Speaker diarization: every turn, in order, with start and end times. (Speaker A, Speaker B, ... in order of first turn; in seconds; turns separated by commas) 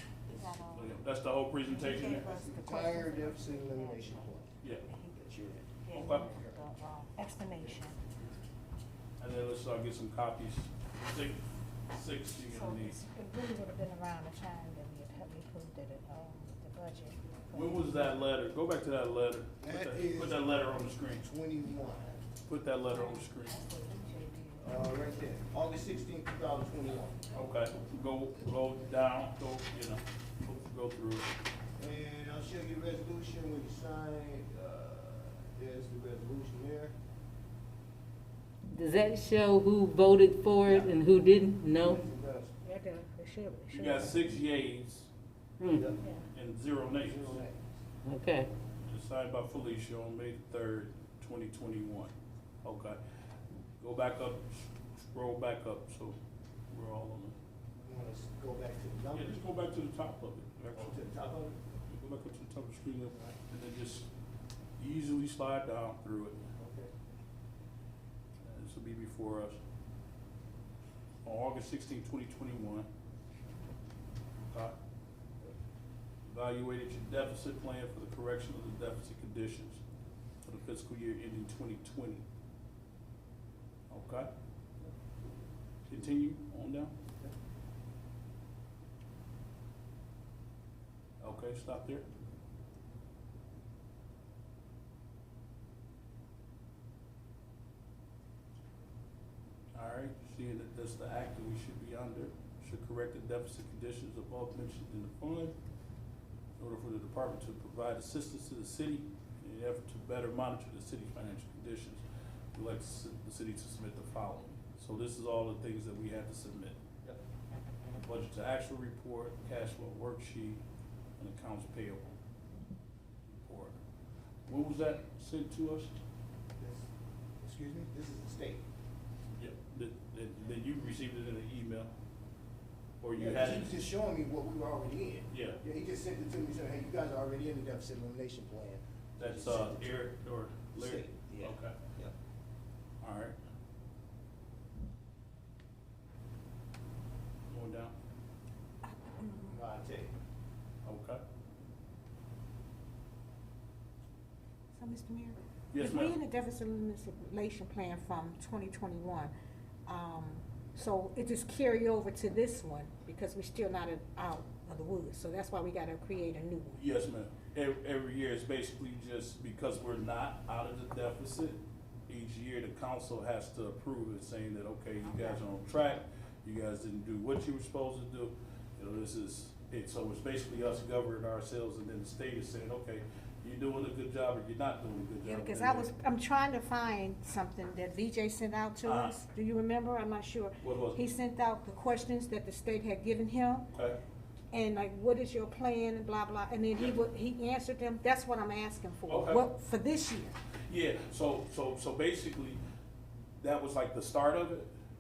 Speaker A: 0.3-0.9, Speaker B: 0.7-2.3, Speaker A: 1.6-4.3, Speaker C: 2.0-4.5, Speaker A: 4.8-8.0, Speaker C: 5.2-5.7, Speaker B: 5.9-6.4, Speaker B: 9.2-13.0, Speaker A: 12.4-18.1, Speaker B: 17.5-21.3, Speaker C: 19.6-20.5, Speaker C: 21.2-22.2, Speaker B: 22.5-23.6, Speaker A: 22.8-24.8, Speaker C: 24.6-27.2, Speaker B: 27.3-31.3, Speaker C: 31.8-36.9, Speaker D: 38.7-42.0, Speaker C: 40.7-40.9, Speaker C: 41.7-42.5, Speaker A: 42.6-44.2, Speaker B: 43.7-45.1, Speaker D: 45.6-45.9, Speaker C: 45.7-46.0, Speaker B: 46.2-47.4, Speaker C: 47.0-47.7, Speaker D: 48.0-48.5, Speaker B: 48.8-52.1, Speaker B: 52.6-53.0, Speaker B: 53.8-56.2, Speaker B: 56.7-57.4, Speaker C: 57.8-59.5, Speaker B: 59.1-61.0, Speaker C: 60.7-61.7, Speaker B: 61.9-64.1, Speaker B: 64.8-66.4, Speaker C: 66.5-66.9, Speaker B: 68.5-69.6, Speaker B: 71.2-72.9, Speaker B: 74.5-74.8, Speaker B: 76.2-79.8, Speaker B: 80.4-82.2, Speaker B: 83.9-84.3, Speaker B: 85.9-86.9, Speaker B: 91.2-92.0, Speaker B: 99.7-105.5, Speaker B: 106.6-117.1, Speaker B: 118.0-120.6, Speaker B: 121.2-122.2, Speaker B: 123.3-123.8, Speaker B: 124.5-125.9, Speaker C: 126.6-126.9, Speaker C: 127.4-128.7, Speaker B: 129.3-131.9, Speaker B: 133.0-133.8, Speaker C: 133.2-140.0, Speaker B: 135.3-135.6, Speaker B: 139.2-141.8, Speaker C: 140.7-142.1, Speaker B: 143.0-143.4, Speaker B: 147.5-147.9, Speaker A: 148.8-149.6, Speaker C: 149.5-150.1, Speaker B: 150.8-151.2, Speaker A: 154.7-159.3, Speaker B: 155.7-156.2, Speaker A: 159.9-166.8, Speaker B: 166.8-185.9, Speaker A: 175.1-175.4, Speaker A: 185.2-193.7, Speaker B: 188.8-189.2, Speaker B: 190.6-191.0, Speaker A: 194.5-200.3, Speaker B: 199.1-199.4, Speaker B: 200.7-202.6, Speaker B: 203.4-204.7